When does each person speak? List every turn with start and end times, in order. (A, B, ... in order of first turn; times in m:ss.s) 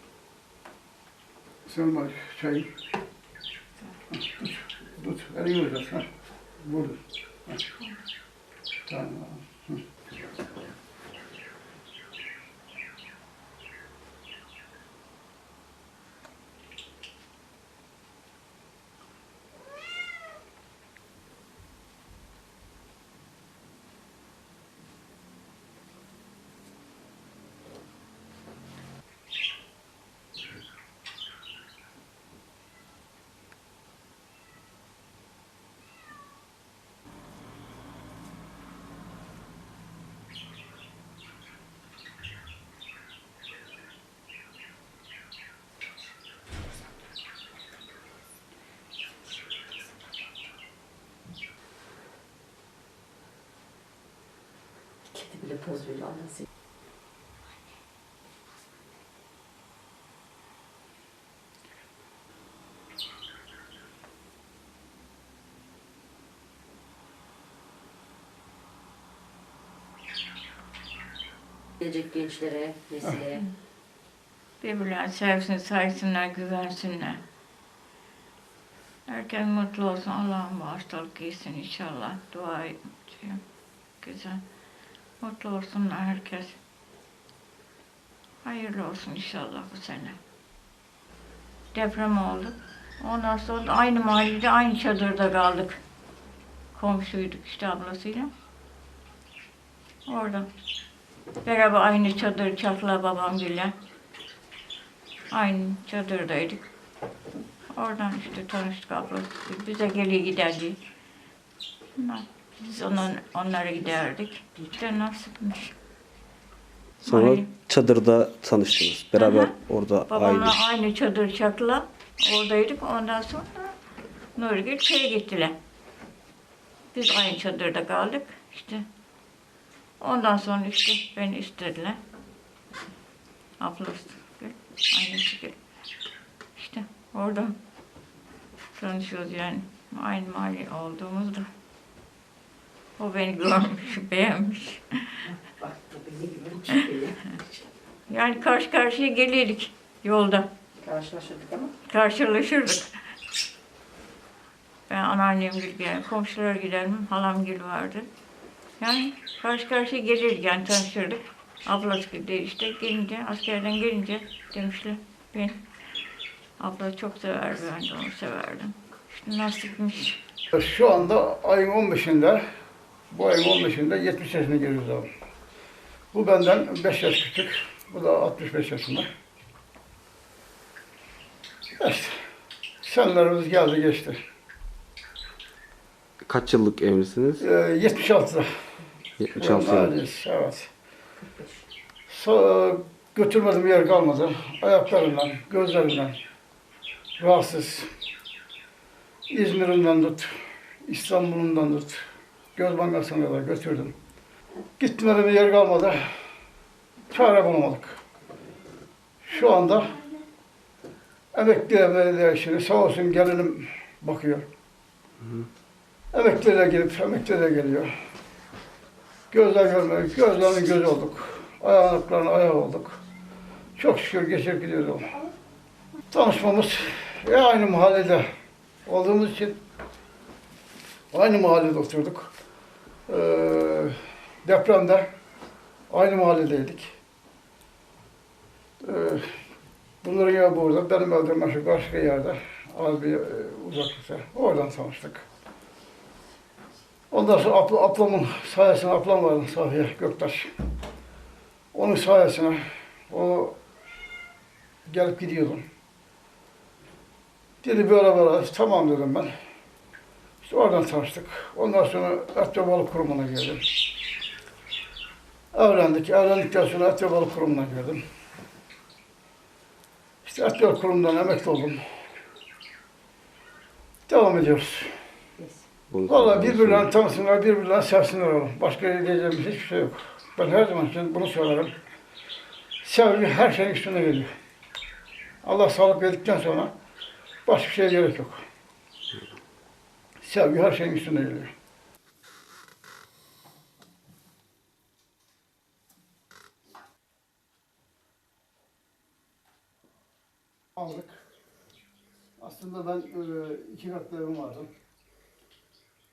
0:01.6-0:02.7 A
0:04.1-0:06.0 A
0:06.6-0:07.6 A
0:08.9-0:09.8 A
0:55.1-0:56.5 B
1:11.8-1:13.4 B
1:14.6-1:17.2 C
1:19.0-1:23.4 C
1:24.0-1:24.4 C
1:25.2-1:26.6 C
1:28.4-1:30.2 C
1:31.7-1:35.8 C
1:36.7-1:38.3 C
1:40.1-1:40.5 C
1:41.4-1:43.7 C
1:45.3-1:46.6 C
1:47.7-1:50.8 C
1:52.0-1:55.7 C
1:57.0-1:57.5 C
1:57.0-2:00.5 D
1:59.2-1:59.5 C
2:00.1-2:03.7 C
2:04.4-2:05.5 C
2:06.9-2:08.8 C
2:10.0-2:12.0 C
2:13.6-2:15.6 C
2:16.6-2:17.6 C
2:18.7-2:21.5 C
2:23.0-2:25.2 C
2:25.4-2:27.4 B
2:28.1-2:30.5 C
2:30.8-2:31.7 B
2:31.8-2:33.0 C
2:34.9-2:38.1 C
2:38.8-2:45.6 C
2:46.6-2:50.2 C
2:50.5-2:52.4 A
2:53.1-2:55.1 A
2:56.1-2:59.1 A
3:01.8-3:02.2 A
3:02.8-3:04.2 A
3:06.2-3:07.4 D
3:07.4-3:08.5 A
3:09.2-3:09.9 D
3:09.4-3:10.7 A
3:11.2-3:11.6 B
3:12.1-3:16.1 A
3:17.2-3:17.9 A
3:19.3-3:22.0 A
3:22.6-3:23.9 A
3:24.8-3:26.0 A
3:27.1-3:28.0 A
3:29.2-3:30.0 A
3:31.3-3:34.4 A
3:36.1-3:37.9 A
3:39.3-3:43.0 A
3:43.8-3:45.2 A
3:46.1-3:48.2 A
3:48.8-3:49.6 A
3:51.1-3:52.3 A
3:53.1-3:53.9 A
3:54.4-3:55.0 A
3:55.9-3:56.9 A
3:58.8-3:59.2 A
4:00.0-4:05.2 A
4:07.1-4:10.5 A
4:11.7-4:13.6 A
4:14.8-4:15.6 A
4:17.6-4:19.3 A
4:20.4-4:23.6 A
4:25.5-4:28.0 A
4:30.2-4:31.8 A
4:34.1-4:34.9 A
4:35.4-4:35.6 B
4:35.9-4:36.9 D
4:36.1-4:41.7 A
4:42.8-4:44.3 A
4:45.4-4:46.7 A
4:47.4-4:48.4 A
4:50.2-4:51.5 A
5:00.8-5:01.2 A
5:02.4-5:04.7 A